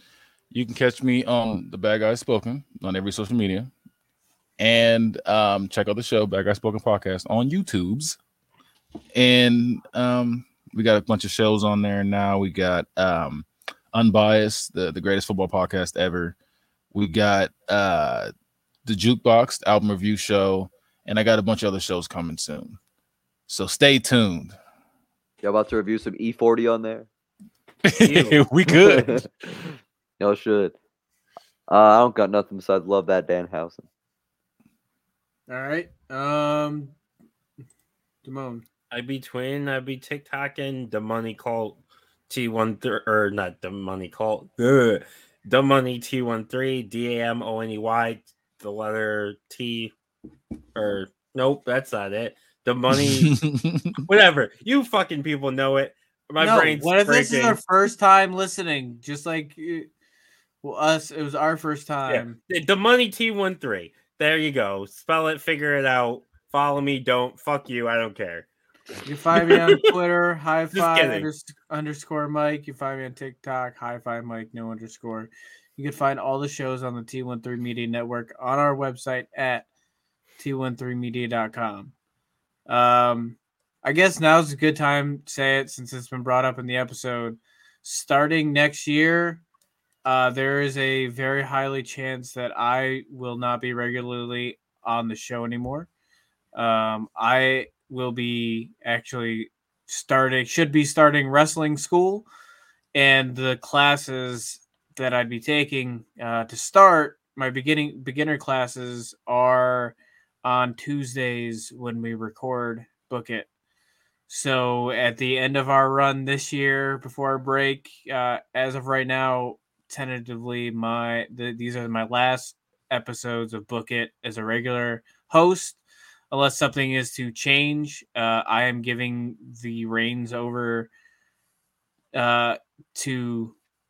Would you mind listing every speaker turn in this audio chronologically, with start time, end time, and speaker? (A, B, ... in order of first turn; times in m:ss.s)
0:00.5-0:03.7 A
0:04.6-0:08.2 A
0:09.1-0:16.3 A
0:16.9-0:18.3 A
0:18.8-0:22.8 A
0:23.5-0:24.5 A
0:25.4-0:27.1 B
0:27.8-0:29.2 A
0:28.0-0:28.4 C
0:28.7-0:30.7 B
0:31.7-0:33.8 B
0:35.5-0:36.9 D
0:38.2-0:38.6 D
0:38.9-0:49.9 C
0:50.7-0:53.4 C
0:53.0-0:54.0 A
0:54.0-0:57.6 C
0:56.4-0:59.9 D
1:00.6-1:02.4 D
1:02.0-1:08.5 C
1:09.0-1:19.6 D
1:09.5-1:09.9 C
1:10.7-1:11.3 C
1:20.4-1:21.9 D
1:22.7-1:29.4 D
1:30.0-1:35.9 D
1:36.5-1:42.3 D
1:42.9-1:53.5 D
1:54.3-2:05.8 D
2:06.3-2:10.9 D
2:12.1-2:13.5 D